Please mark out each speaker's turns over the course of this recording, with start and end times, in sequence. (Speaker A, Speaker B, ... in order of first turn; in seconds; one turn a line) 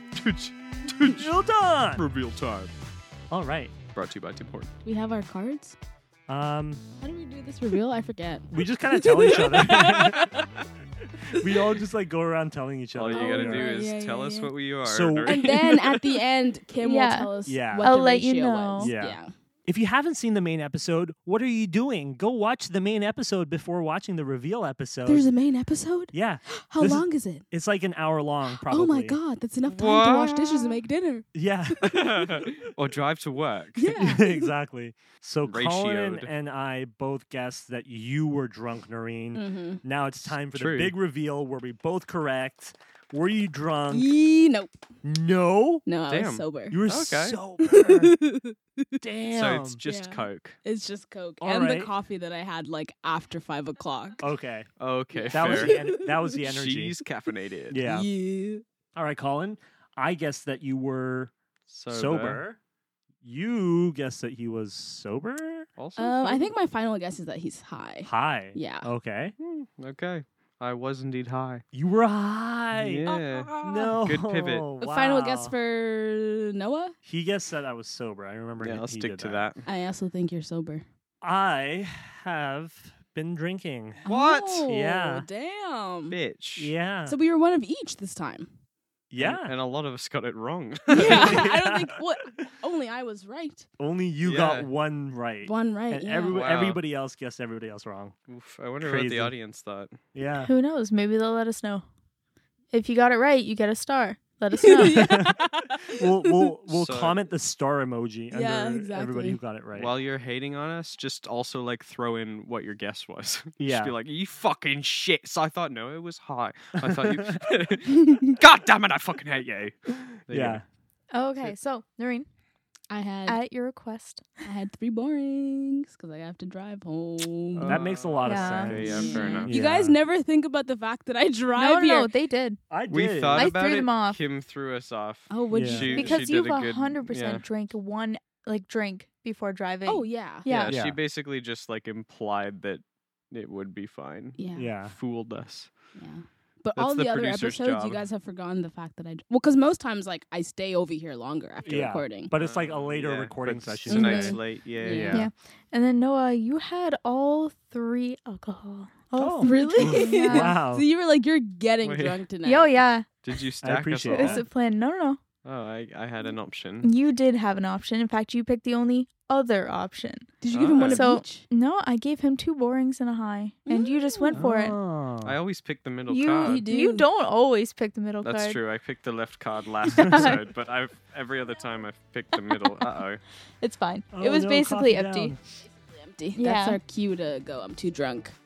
Speaker A: 0.1-1.3
Speaker B: 1.1-2.0
Speaker A: 1.9-2.7
Speaker B: 3.3-3.7
Speaker A: 3.9-4.7
Speaker C: 4.8-5.8
Speaker B: 6.3-6.8
Speaker C: 7.0-10.1
Speaker B: 8.5-10.3
Speaker A: 9.5-10.4
Speaker B: 11.2-13.7
Speaker A: 12.9-16.0
Speaker C: 13.1-14.5
Speaker B: 14.8-15.4
Speaker C: 15.2-19.3
Speaker D: 16.8-18.9
Speaker B: 17.4-17.9
Speaker B: 18.8-25.3
Speaker C: 25.0-27.4
Speaker B: 26.1-29.2
Speaker C: 28.4-31.2
Speaker A: 29.6-30.8
Speaker B: 31.3-32.5
Speaker A: 31.8-34.0
Speaker C: 33.8-34.5
Speaker B: 34.0-44.1
Speaker A: 35.4-36.3
Speaker C: 39.3-39.8
Speaker A: 40.5-40.9
Speaker C: 43.9-44.8
Speaker B: 45.0-45.8
Speaker C: 45.8-46.8
Speaker A: 46.1-47.4
Speaker B: 46.7-48.2
Speaker C: 47.6-48.5
Speaker B: 49.0-49.8
Speaker A: 49.3-50.6
Speaker C: 49.9-54.3
Speaker B: 51.4-51.9
Speaker B: 54.2-54.7
Speaker A: 54.8-55.8
Speaker C: 55.1-56.2
Speaker B: 55.3-57.0
Speaker A: 56.4-57.8
Speaker B: 57.7-58.1
Speaker C: 57.9-58.6
Speaker B: 59.0-61.3
Speaker A: 61.7-62.4
Speaker B: 61.9-62.6
Speaker B: 63.2-65.7
Speaker A: 65.8-66.5
Speaker C: 66.0-68.9
Speaker B: 68.0-69.3
Speaker A: 69.4-71.6
Speaker B: 71.7-73.1
Speaker A: 72.7-74.7
Speaker C: 73.1-73.9
Speaker B: 73.6-75.5
Speaker C: 74.8-76.9
Speaker B: 77.0-79.5
Speaker A: 78.6-79.6
Speaker C: 79.6-80.8
Speaker B: 81.2-84.0
Speaker A: 84.0-84.6
Speaker C: 84.0-86.2
Speaker B: 84.7-85.3
Speaker A: 86.1-86.7
Speaker B: 86.6-87.2
Speaker C: 87.0-88.5
Speaker B: 89.1-89.5
Speaker A: 89.2-91.5
Speaker C: 90.9-93.7
Speaker B: 91.1-91.8
Speaker B: 93.8-98.2
Speaker A: 94.2-94.7
Speaker C: 95.5-96.4
Speaker A: 96.3-96.8
Speaker A: 98.3-100.0
Speaker B: 98.8-99.3
Speaker B: 100.1-100.5
Speaker D: 100.5-101.8
Speaker D: 102.7-105.1
Speaker C: 104.6-106.0
Speaker B: 104.9-110.0
Speaker A: 106.7-107.2
Speaker C: 108.3-109.4
Speaker A: 109.7-120.6
Speaker B: 113.6-113.9
Speaker B: 116.9-117.3
Speaker B: 120.3-120.6
Speaker D: 121.1-122.3
Speaker C: 122.9-123.4
Speaker D: 123.2-124.3
Speaker C: 124.4-127.8
Speaker A: 127.5-129.5
Speaker B: 127.6-130.0
Speaker D: 128.2-129.4
Speaker C: 128.6-132.1
Speaker D: 131.5-132.6
Speaker B: 132.7-133.5
Speaker A: 132.9-137.4
Speaker D: 133.3-134.2
Speaker C: 135.3-136.2
Speaker B: 135.5-135.9
Speaker D: 135.9-140.8
Speaker C: 139.8-140.5
Speaker A: 140.5-145.7
Speaker B: 140.7-141.0
Speaker C: 144.4-144.7
Speaker B: 144.5-144.9
Speaker C: 145.9-152.3
Speaker A: 146.7-148.0
Speaker B: 151.6-155.3
Speaker A: 152.3-155.1
Speaker C: 153.9-155.3
Speaker D: 155.1-160.5
Speaker B: 159.2-160.8
Speaker C: 159.4-162.8
Speaker A: 161.8-162.2
Speaker D: 162.4-163.1
Speaker A: 163.2-164.4
Speaker B: 163.6-164.4
Speaker D: 164.1-165.2
Speaker A: 165.4-166.9
Speaker D: 166.8-174.8
Speaker C: 170.4-171.4
Speaker A: 170.5-171.1
Speaker C: 173.7-174.4
Speaker B: 174.3-175.3
Speaker A: 175.2-176.6
Speaker D: 176.1-178.6
Speaker C: 176.4-177.1
Speaker A: 178.2-183.2
Speaker D: 179.8-180.4
Speaker D: 183.6-185.3
Speaker B: 184.1-185.4
Speaker C: 185.6-188.3
Speaker D: 186.3-186.8